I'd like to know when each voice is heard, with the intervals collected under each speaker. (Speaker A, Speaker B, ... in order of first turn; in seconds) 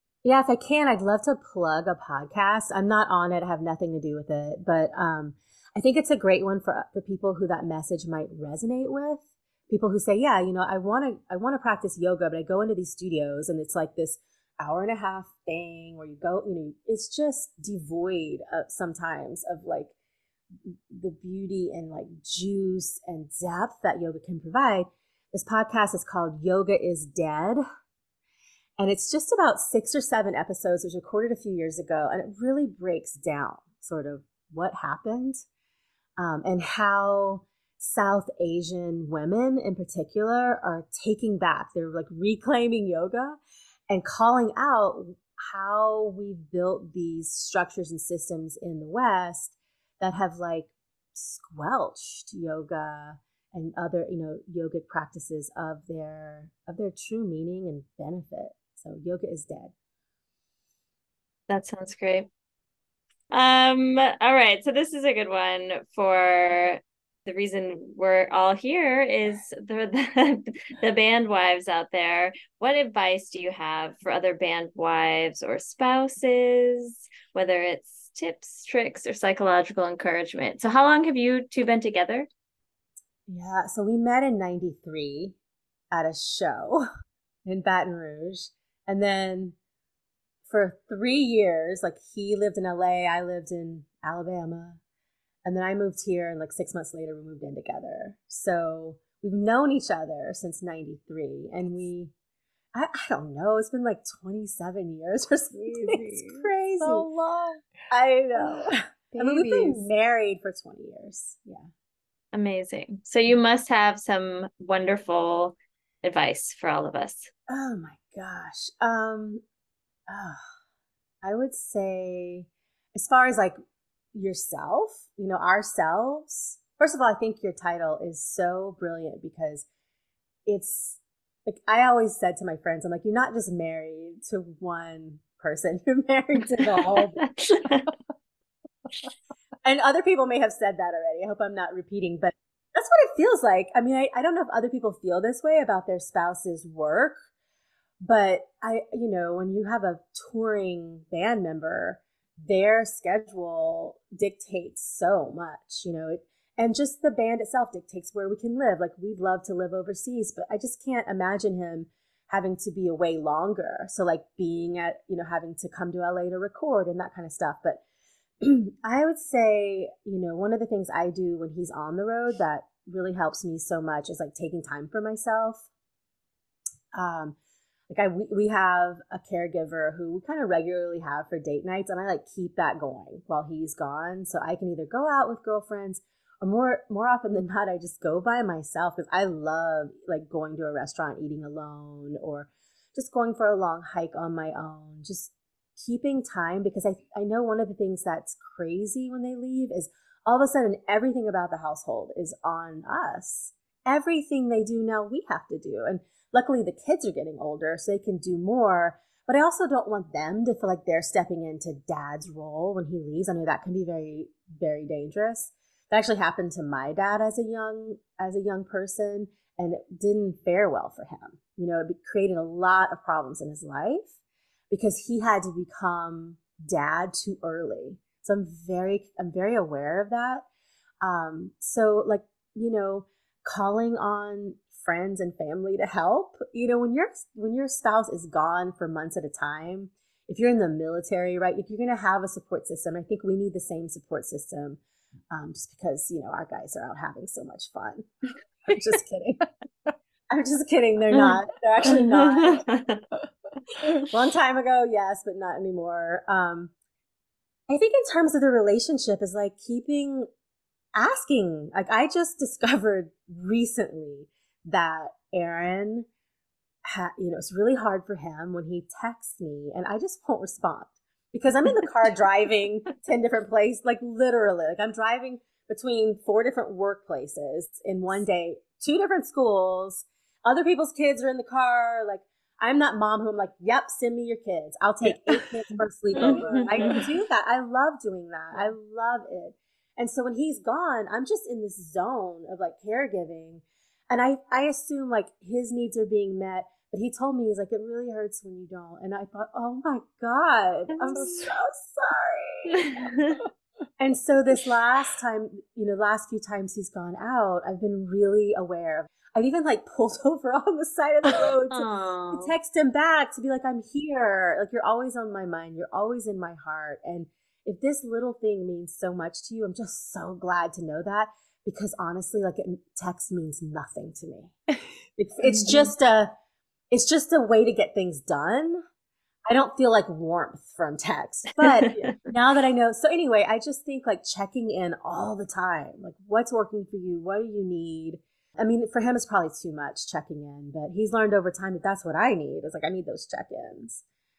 Speaker A: 0.2-19.9, 20.6-27.6, 28.8-35.4, 36.2-59.7, 83.3-85.3, 85.9-86.8, 87.4-89.5, 90.5-94.8, 95.4-102.1, 102.7-107.1, 107.9-111.7, 117.5-119.4, 120.1-120.4, 121.2-123.5, 124.1-129.7, 130.4-137.2, 139.6-147.2, 148.0-167.8, 168.4-175.7, 176.9-177.4, 177.9-224.1, 224.7-230.4, 231.0-244.8, 245.3-248.1, 248.7-249.4, 250.3-252.6, 254.1-256.7, 257.7-260.3, 260.9-266.1, 266.8-302.8, 304.0-324.5, 325.2-326.3, 326.9-328.8, 329.5-344.0
Speaker B: 61.5-62.3, 63.3-82.3, 112.3-117.3, 137.2-137.9, 251.1-253.0, 286.1-287.0, 301.0-301.2, 302.7-303.4, 311.7-312.5, 331.6-332.1
Speaker C: 105.5-107.7, 108.3-109.9, 285.0-285.5, 286.2-287.0, 301.1-301.5